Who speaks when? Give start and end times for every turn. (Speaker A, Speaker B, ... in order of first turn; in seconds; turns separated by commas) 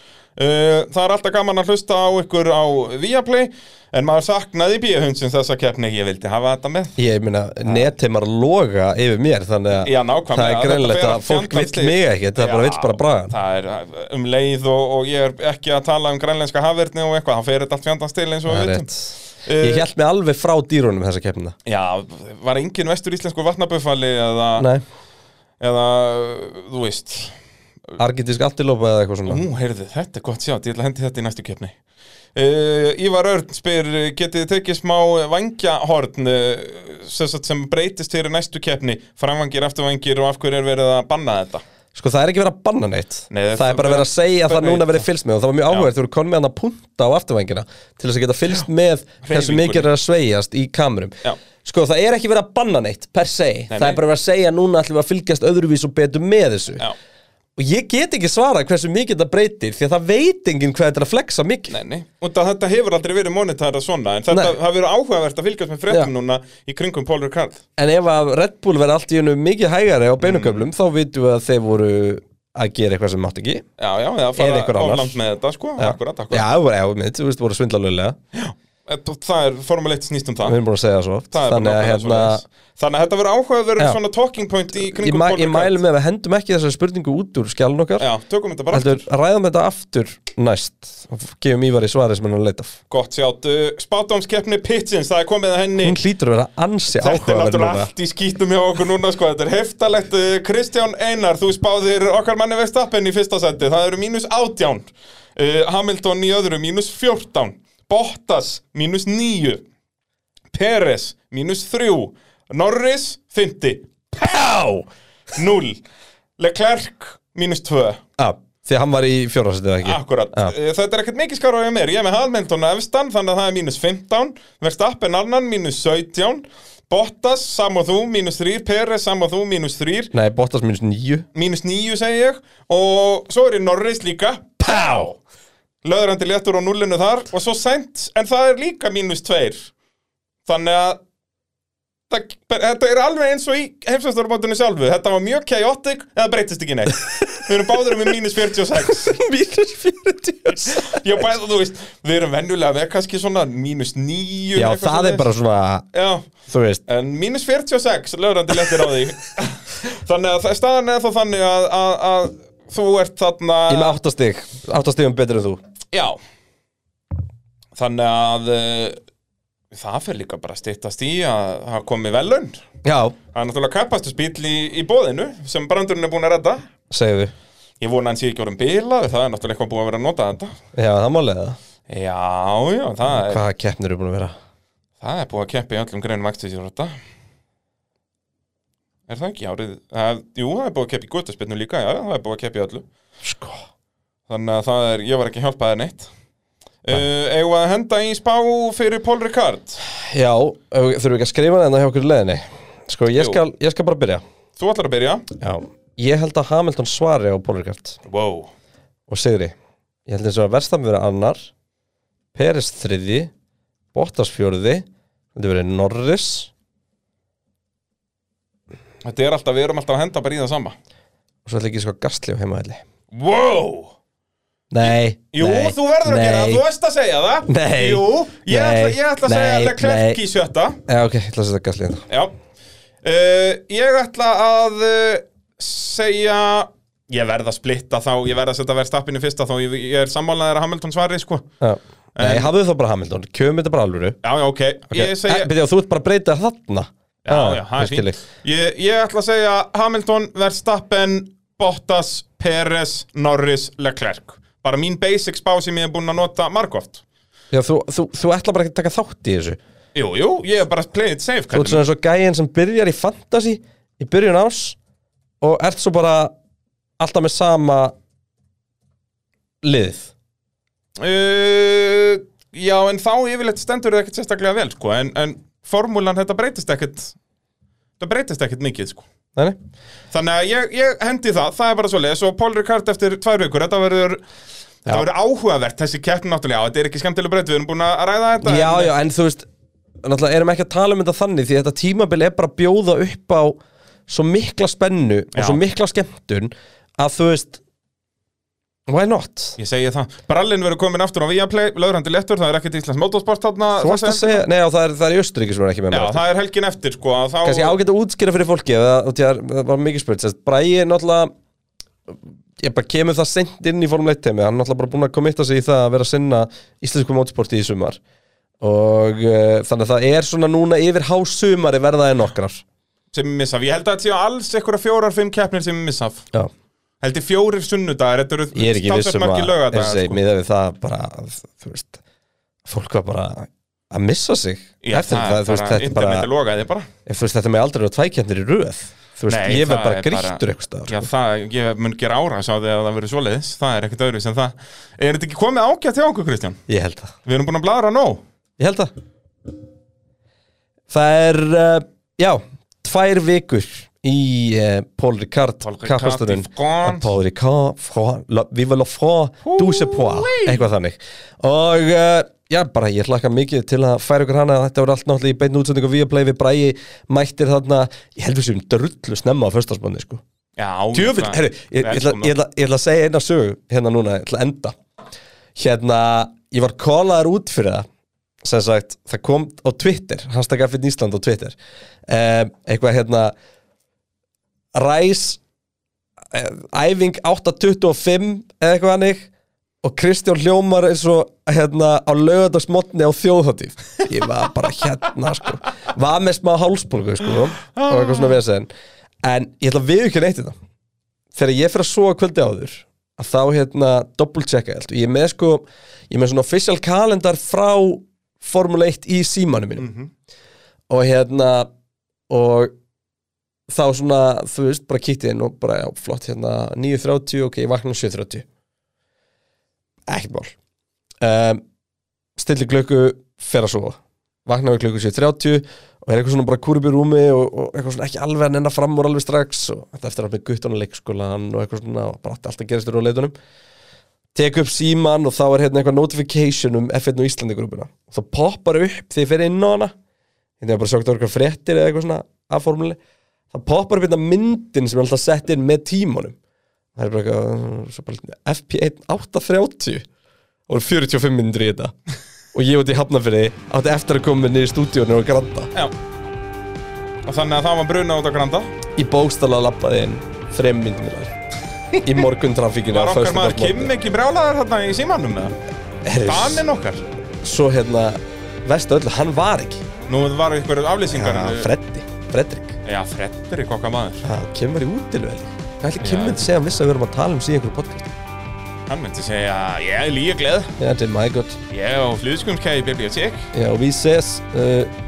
Speaker A: 0.4-7.0, Speaker B: 7.0-13.3, Speaker A: 7.6-7.9, Speaker A: 9.8-18.9, Speaker B: 18.5-21.6, Speaker A: 19.4-19.9, Speaker A: 21.7-24.7, Speaker B: 24.6-24.8, Speaker A: 25.6-27.3, Speaker B: 28.0-29.4, Speaker A: 29.3-31.8, Speaker A: 32.4-41.6, Speaker B: 41.9-56.9, Speaker A: 43.3-45.1, Speaker A: 49.2-49.9, Speaker A: 53.7-54.0, Speaker B: 57.6-61.8, Speaker A: 61.7-67.6, Speaker B: 64.3-64.6, Speaker B: 67.8-73.7, Speaker A: 70.2-70.7, Speaker A: 73.8-76.5, Speaker B: 74.4-75.2, Speaker B: 75.8-78.2, Speaker A: 78.3-80.6, Speaker B: 80.5-82.4, Speaker A: 81.3-85.8, Speaker B: 84.8-88.1, Speaker A: 88.0-89.0, Speaker B: 88.7-92.8, Speaker A: 92.9-96.0, Speaker B: 95.8-97.9, Speaker A: 97.0-109.6, Speaker A: 110.5-114.6, Speaker B: 114.2-114.8, Speaker A: 115.3-115.8, Speaker A: 116.4-118.0, Speaker B: 118.2-120.5, Speaker A: 119.8-130.1, Speaker B: 130.1-131.3, Speaker A: 131.3-135.2, Speaker B: 134.6-135.1, Speaker A: 135.8-139.7, Speaker A: 140.5-141.0, Speaker A: 142.1-149.2, Speaker B: 147.2-147.4, Speaker B: 148.8-151.0, Speaker A: 150.5-155.3, Speaker B: 154.6-155.9, Speaker A: 155.9-156.3, Speaker B: 156.5-156.8, Speaker A: 156.9-164.0, Speaker B: 163.7-165.6, Speaker A: 165.9-166.2, Speaker A: 167.7-169.0, Speaker A: 169.7-172.6, Speaker B: 172.8-173.2, Speaker A: 173.3-176.7, Speaker B: 176.9-177.3, Speaker A: 177.8-180.5, Speaker B: 180.8-181.6, Speaker A: 181.9-183.4, Speaker B: 183.1-184.3, Speaker A: 185.0-186.9, Speaker A: 189.1-192.9, Speaker B: 193.2-193.6, Speaker A: 194.3-196.1, Speaker A: 196.8-199.8, Speaker B: 199.8-204.2, Speaker A: 203.2-203.4, Speaker A: 204.6-205.3, Speaker B: 205.4-208.0, Speaker A: 208.1-208.5, Speaker B: 209.1-209.5, Speaker B: 210.1-211.5, Speaker B: 212.3-213.3, Speaker B: 213.9-216.5, Speaker A: 219.0-220.8, Speaker B: 221.4-222.8, Speaker A: 223.1-223.9, Speaker B: 224.7-226.6, Speaker A: 224.8-230.8, Speaker B: 227.5-230.2, Speaker B: 230.9-232.0, Speaker A: 232.1-232.3, Speaker A: 233.0-241.5, Speaker B: 241.6-244.2, Speaker A: 242.2-242.5, Speaker A: 244.2-245.5, Speaker B: 244.9-248.2, Speaker A: 247.2-257.0, Speaker B: 257.5-259.6, Speaker A: 259.9-261.8, Speaker B: 261.5-264.8, Speaker B: 265.4-266.3, Speaker B: 267.0-267.9, Speaker B: 269.6-270.1, Speaker A: 271.0-277.1, Speaker A: 278.0-279.1, Speaker A: 280.1-284.2, Speaker A: 284.9-288.9, Speaker B: 288.4-289.5, Speaker B: 290.0-297.6, Speaker A: 295.3-295.6, Speaker B: 298.9-299.6, Speaker A: 299.6-304.5, Speaker B: 303.8-306.2, Speaker A: 305.9-307.8, Speaker B: 307.4-311.3, Speaker B: 312.1-318.0, Speaker B: 318.6-322.6, Speaker A: 323.1-326.3, Speaker A: 327.0-330.2, Speaker B: 328.5-332.0, Speaker B: 332.7-336.3, Speaker A: 334.8-336.9, Speaker B: 337.1-341.1, Speaker A: 339.3-346.6, Speaker B: 346.7-347.1, Speaker A: 347.2-348.2, Speaker B: 348.6-348.9, Speaker B: 350.9-370.2, Speaker A: 355.6-357.1, Speaker A: 359.4-360.6, Speaker A: 370.6-372.3, Speaker B: 370.9-374.8, Speaker B: 375.6-377.9, Speaker B: 378.4-381.6, Speaker B: 382.1-383.3, Speaker B: 384.8-385.4, Speaker B: 386.3-389.3, Speaker B: 389.8-398.7, Speaker A: 397.8-398.4, Speaker B: 399.2-400.6, Speaker B: 401.3-409.9, Speaker A: 409.8-410.1, Speaker B: 410.9-411.7, Speaker B: 412.3-412.7, Speaker B: 413.7-418.4, Speaker B: 420.1-420.6, Speaker B: 421.2-421.6, Speaker B: 422.4-433.3, Speaker B: 434.4-439.9, Speaker B: 440.6-443.0, Speaker B: 443.5-446.4, Speaker B: 447.0-450.1, Speaker B: 450.7-451.9, Speaker B: 452.5-455.7, Speaker A: 457.2-458.7, Speaker B: 459.0-461.4, Speaker A: 461.9-462.2, Speaker B: 462.0-463.9, Speaker A: 462.9-465.6, Speaker B: 466.1-466.7, Speaker A: 466.2-467.0, Speaker B: 467.4-469.8, Speaker A: 470.1-471.7, Speaker B: 471.1-472.8, Speaker A: 472.9-474.3, Speaker B: 474.2-478.1, Speaker A: 476.0-476.5, Speaker A: 478.9-480.7, Speaker B: 480.8-481.6, Speaker A: 481.7-483.5, Speaker B: 483.5-484.9